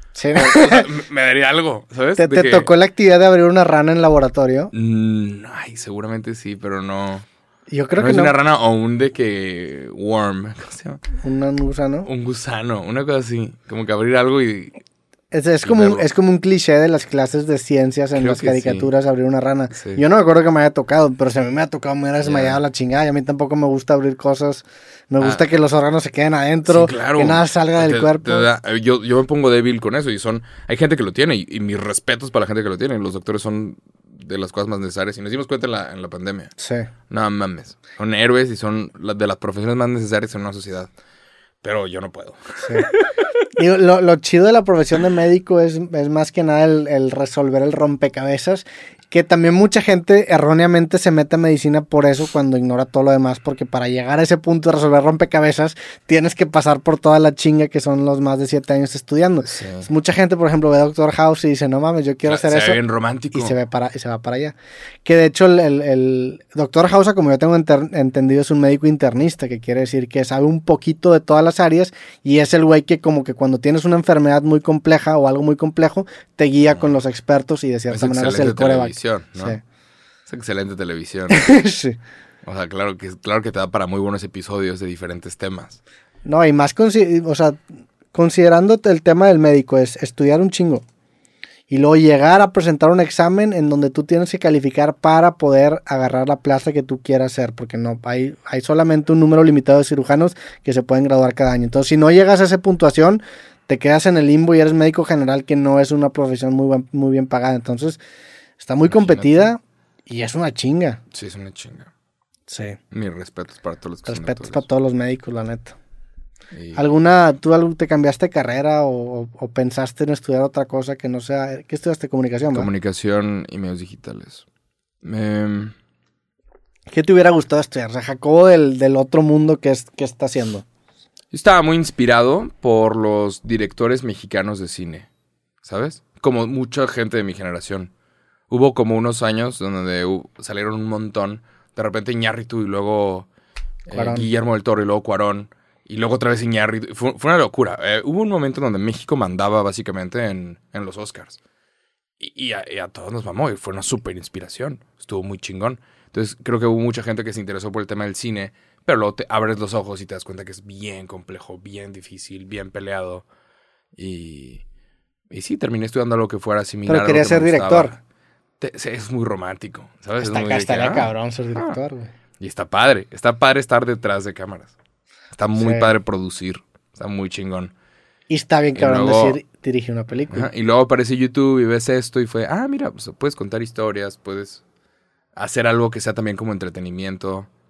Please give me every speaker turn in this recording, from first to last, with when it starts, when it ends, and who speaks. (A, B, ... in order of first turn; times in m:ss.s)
0:00.1-0:00.9 A
0:00.3-0:02.7 B
0:02.2-0:04.7 A
0:04.7-0:07.2 B
0:07.7-0:08.3 A
0:08.0-0:11.0 B
0:11.2-0:12.1 A
0:12.0-0:14.8 B
0:15.3-0:28.5 A
0:15.6-0:16.1 B
0:18.2-0:18.9 B
0:19.7-0:20.0 B
0:22.2-0:22.6 B
0:25.2-0:25.4 B
0:26.7-0:36.5 B
0:36.6-0:36.9 A
0:37.1-0:40.9 B
0:41.6-0:43.1 B
0:42.6-0:42.9 A
0:43.5-1:02.8 A
0:59.4-0:59.9 B
1:02.2-1:03.6 B
1:03.3-1:19.6 A
1:17.9-1:19.6 B
1:20.3-1:21.5 B
1:21.3-1:22.0 A
1:22.4-1:25.8 B
1:26.2-1:27.6 A
1:28.1-1:30.8 A
1:31.7-1:48.0 A
1:48.6-1:51.0 A
1:48.9-1:49.5 B
1:51.1-1:51.9 B
1:52.5-1:52.8 A
1:52.9-1:54.6 B
1:54.0-1:55.8 A
1:56.5-1:56.8 B
1:56.7-2:02.7 A
2:02.5-2:04.4 B
2:05.0-2:05.7 B
2:06.9-2:10.6 A
2:11.3-2:15.1 B
2:15.6-2:17.9 B
2:18.5-2:23.3 B
2:23.9-2:31.4 B
2:23.9-2:24.3 A
2:32.2-2:43.2 B
2:44.0-2:44.6 B
2:45.3-2:48.0 B
2:46.9-2:47.9 A
2:48.6-2:51.8 B
2:50.2-2:52.1 A
2:52.4-2:54.7 B
2:55.3-2:57.7 B
2:55.6-2:55.9 A
2:58.3-3:00.5 A
2:58.8-2:59.4 B
3:00.3-3:04.6 B
3:05.4-3:07.5 B